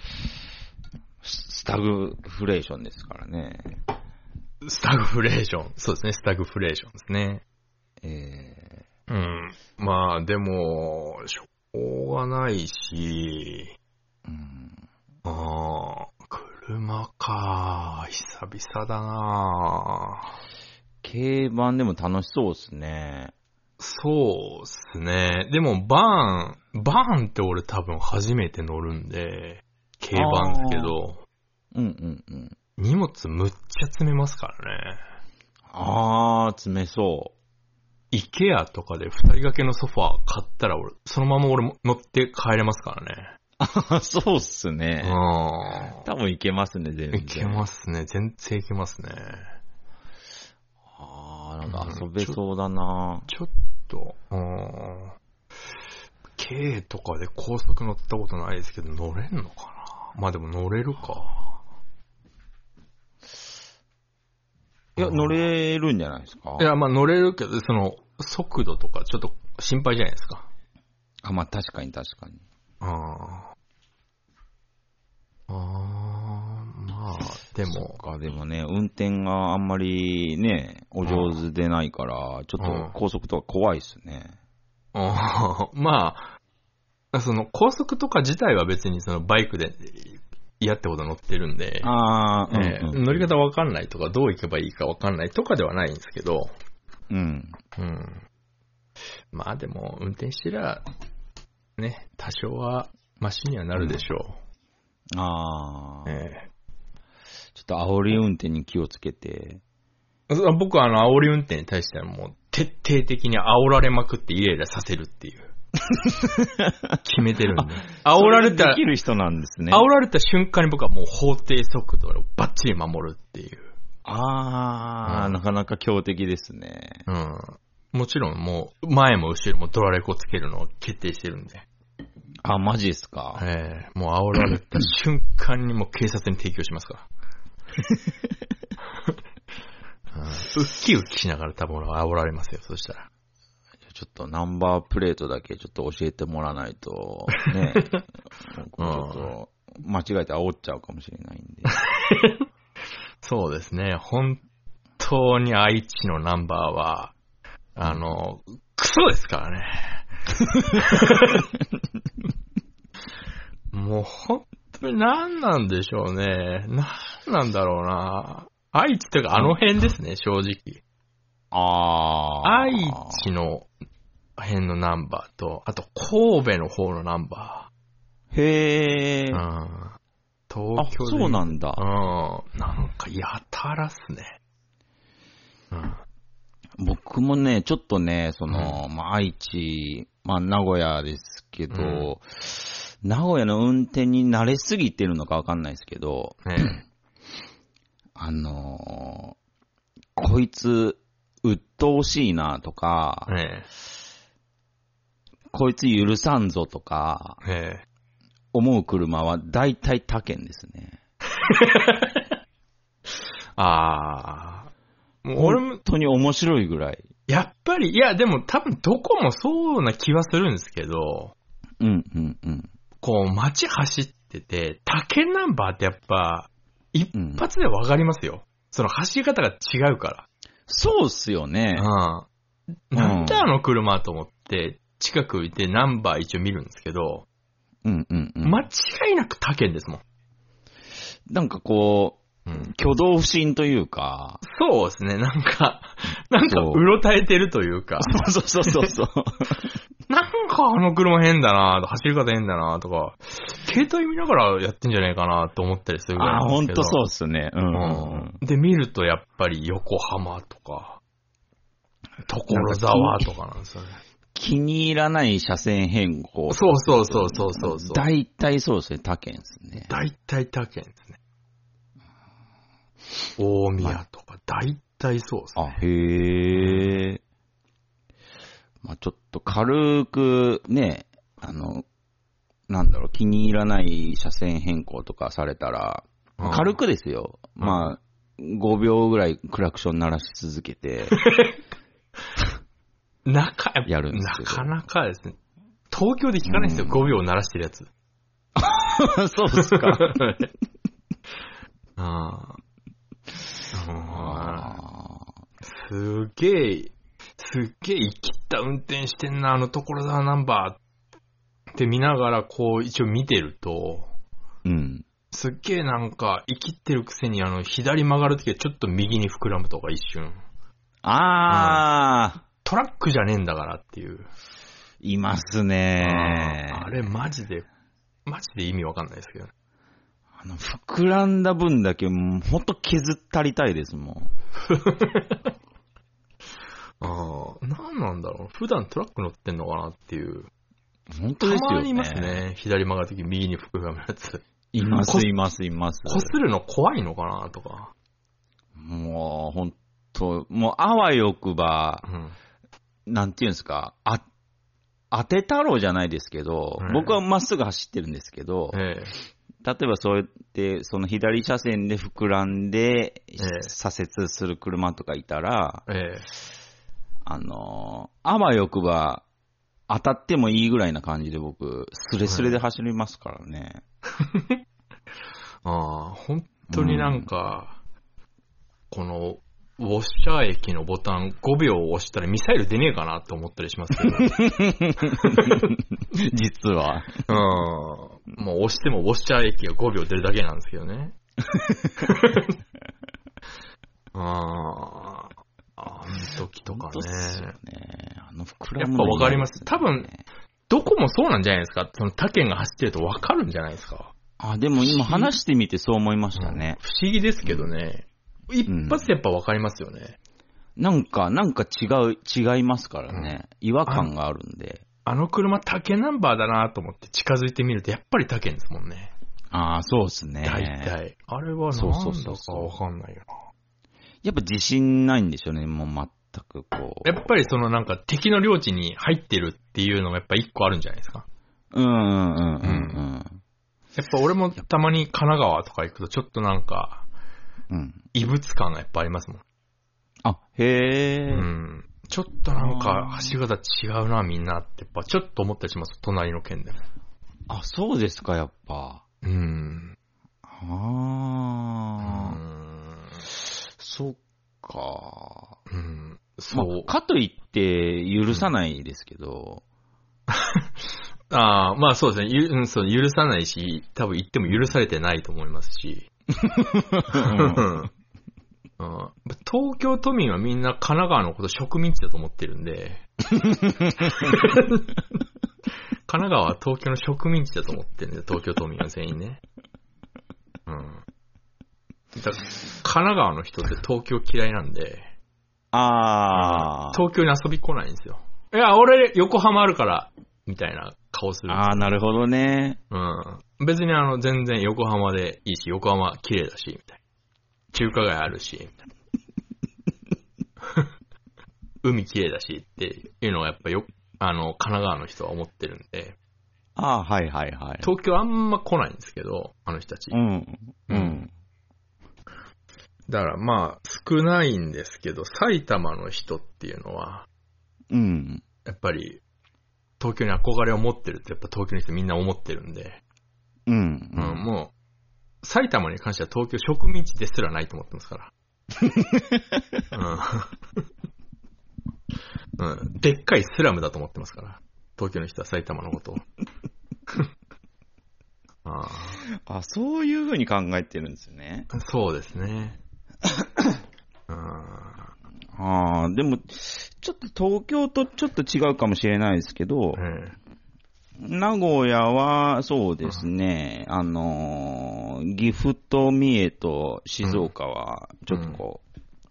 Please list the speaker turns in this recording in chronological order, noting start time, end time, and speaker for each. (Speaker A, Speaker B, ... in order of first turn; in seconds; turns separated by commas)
Speaker A: 1.2-3.8, Speaker B: 4.6-7.4, Speaker A: 8.0-8.8, Speaker B: 9.1-13.7, Speaker A: 14.2-14.8, Speaker B: 15.2-20.2, Speaker A: 21.0-23.3, Speaker B: 23.8-31.2, Speaker A: 30.1-30.9, Speaker A: 31.7-32.5, Speaker B: 32.8-35.0, Speaker A: 35.7-37.3, Speaker B: 38.1-43.3, Speaker A: 43.6-45.2, Speaker B: 45.0-46.0, Speaker A: 45.7-47.6, Speaker B: 47.1-49.5, Speaker A: 50.9-53.3, Speaker B: 51.6-52.4, Speaker B: 53.3-55.1, Speaker B: 56.4-61.4, Speaker B: 65.0-65.4, Speaker A: 65.0-66.7, Speaker B: 66.6-70.5, Speaker A: 71.2-72.4, Speaker B: 72.8-73.5, Speaker B: 75.5-78.0, Speaker A: 77.7-84.3, Speaker B: 81.0-81.4, Speaker B: 82.6-82.9, Speaker B: 84.9-86.3, Speaker B: 87.1-91.9, Speaker A: 91.8-93.3, Speaker B: 92.5-96.5, Speaker A: 97.1-97.6, Speaker B: 97.8-98.2, Speaker B: 99.3-100.8, Speaker B: 101.8-104.4, Speaker A: 103.8-104.0, Speaker A: 105.1-106.2, Speaker B: 106.0-106.5, Speaker A: 107.5-109.6, Speaker B: 110.3-115.5, Speaker A: 115.9-117.0, Speaker B: 117.0-118.8, Speaker A: 117.6-119.9, Speaker B: 119.7-123.7, Speaker A: 124.0-127.0, Speaker B: 125.0-125.4, Speaker B: 127.1-131.6, Speaker A: 132.4-133.4, Speaker B: 133.3-137.1, Speaker B: 140.1-143.1, Speaker A: 143.9-151.7, Speaker B: 148.8-149.3, Speaker B: 151.7-152.4, Speaker B: 153.2-154.4, Speaker B: 155.0-157.1, Speaker B: 157.7-161.5, Speaker B: 163.7-170.8, Speaker A: 171.5-173.2, Speaker B: 172.4-173.7, Speaker B: 174.4-177.7, Speaker A: 178.3-179.4, Speaker B: 179.3-180.0, Speaker B: 180.5-184.4, Speaker A: 180.8-181.8, Speaker B: 185.7-186.0, Speaker A: 186.8-196.7, Speaker B: 188.5-188.8, Speaker B: 191.7-192.1, Speaker B: 196.4-196.8, Speaker A: 198.2-199.3, Speaker A: 200.2-203.3, Speaker B: 203.3-203.7, Speaker A: 205.5-207.4, Speaker B: 207.4-207.8, Speaker A: 208.5-211.0, Speaker B: 211.3-212.2, Speaker B: 213.6-214.7, Speaker B: 215.2-215.8, Speaker A: 215.3-217.0, Speaker B: 217.3-221.3, Speaker A: 221.8-222.7, Speaker B: 223.0-230.2, Speaker A: 227.1-227.4, Speaker A: 230.7-231.9, Speaker B: 231.8-232.3, Speaker B: 232.9-237.2, Speaker A: 232.9-233.5, Speaker A: 237.8-238.6, Speaker B: 238.4-240.0, Speaker A: 241.3-244.4, Speaker B: 242.4-242.7, Speaker B: 244.4-248.9, Speaker A: 246.4-246.8, Speaker A: 248.0-249.7, Speaker B: 250.1-257.0, Speaker A: 256.2-258.4, Speaker B: 257.7-261.0, Speaker B: 262.3-264.0, Speaker A: 262.5-263.2, Speaker A: 264.3-269.9, Speaker B: 266.5-268.1, Speaker B: 269.8-271.2, Speaker B: 273.4-275.8, Speaker A: 275.6-277.2, Speaker B: 276.5-276.9, Speaker A: 278.8-281.8, Speaker A: 282.7-291.2, Speaker B: 286.4-286.8, Speaker B: 287.6-287.9, Speaker B: 291.1-291.6, Speaker B: 293.2-295.4, Speaker A: 293.9-294.7, Speaker B: 295.9-297.9, Speaker A: 296.4-297.1, Speaker A: 298.6-300.2, Speaker B: 299.5-300.5, Speaker B: 302.0-302.6, Speaker B: 303.7-304.8, Speaker A: 304.1-305.3, Speaker B: 305.6-310.8, Speaker B: 311.7-314.1, Speaker A: 314.6-315.0, Speaker B: 315.3-320.4, Speaker A: 321.0-322.4, Speaker B: 321.5-321.8, Speaker B: 322.6-324.3, Speaker A: 325.0-326.9, Speaker B: 326.0-327.6, Speaker B: 328.2-329.5, Speaker A: 330.4-334.3, Speaker B: 334.7-335.4, Speaker B: 337.0-340.5, Speaker A: 341.1-342.4, Speaker B: 341.4-345.3, Speaker A: 344.7-346.3, Speaker B: 346.1-347.9, Speaker A: 348.8-352.0, Speaker B: 352.1-352.4, Speaker A: 353.1-354.2, Speaker A: 355.1-358.8, Speaker B: 356.8-357.2, Speaker B: 358.7-359.1, Speaker A: 359.6-365.9, Speaker B: 363.4-363.7, Speaker B: 365.9-366.3, Speaker A: 367.2-369.2, Speaker A: 369.9-373.8, Speaker B: 372.2-372.6, Speaker B: 374.2-374.5, Speaker B: 375.6-377.8, Speaker A: 376.7-377.3, Speaker B: 378.9-384.4, Speaker A: 384.0-387.2, Speaker B: 385.1-385.7, Speaker B: 387.3-391.1, Speaker A: 391.5-392.1, Speaker B: 392.0-392.5, Speaker B: 394.1-397.5, Speaker A: 396.6-400.2, Speaker B: 398.8-400.1, Speaker B: 400.7-404.1, Speaker A: 404.4-406.8, Speaker B: 404.8-405.3, Speaker B: 406.4-410.1, Speaker A: 408.7-409.1, Speaker A: 410.8-414.8, Speaker B: 413.1-414.1, Speaker B: 415.1-419.1, Speaker A: 419.5-420.9, Speaker B: 420.4-423.3, Speaker A: 421.7-422.7, Speaker A: 424.2-427.3, Speaker B: 427.0-431.2, Speaker A: 431.7-433.4, Speaker B: 432.6-433.0, Speaker B: 433.9-437.0, Speaker A: 437.7-438.0, Speaker B: 438.1-439.4, Speaker A: 440.2-441.5, Speaker B: 441.3-446.8, Speaker A: 442.5-443.4, Speaker A: 447.5-449.0, Speaker B: 449.2-449.9, Speaker A: 450.4-452.4, Speaker B: 452.0-453.2, Speaker A: 453.3-455.5, Speaker B: 455.7-456.9, Speaker A: 456.5-459.6, Speaker B: 460.3-466.1, Speaker A: 466.4-467.6, Speaker B: 467.1-467.9, Speaker B: 468.8-473.1, Speaker B: 474.0-474.9, Speaker B: 476.1-479.4, Speaker B: 480.7-481.0, Speaker B: 482.1-485.1, Speaker A: 485.7-487.0, Speaker B: 486.3-491.9, Speaker A: 491.5-492.8, Speaker B: 492.9-497.0, Speaker B: 497.7-498.8, Speaker B: 501.8-506.1, Speaker A: 506.8-507.9, Speaker B: 507.8-510.2, Speaker A: 510.1-511.3, Speaker B: 510.9-511.2, Speaker B: 513.1-517.3, Speaker A: 517.9-518.4, Speaker B: 518.6-519.2, Speaker B: 520.0-523.0, Speaker A: 523.7-524.4, Speaker B: 524.1-524.7, Speaker B: 525.4-528.3, Speaker A: 528.8-529.6, Speaker B: 529.9-530.5, Speaker B: 532.6-536.2, Speaker B: 538.6-539.2, Speaker A: 539.2-541.7, Speaker B: 541.7-542.8, Speaker B: 544.3-545.0, Speaker A: 545.5-550.0, Speaker B: 549.9-550.4, Speaker A: 551.2-558.8, Speaker B: 557.2-557.5, Speaker B: 558.3-558.6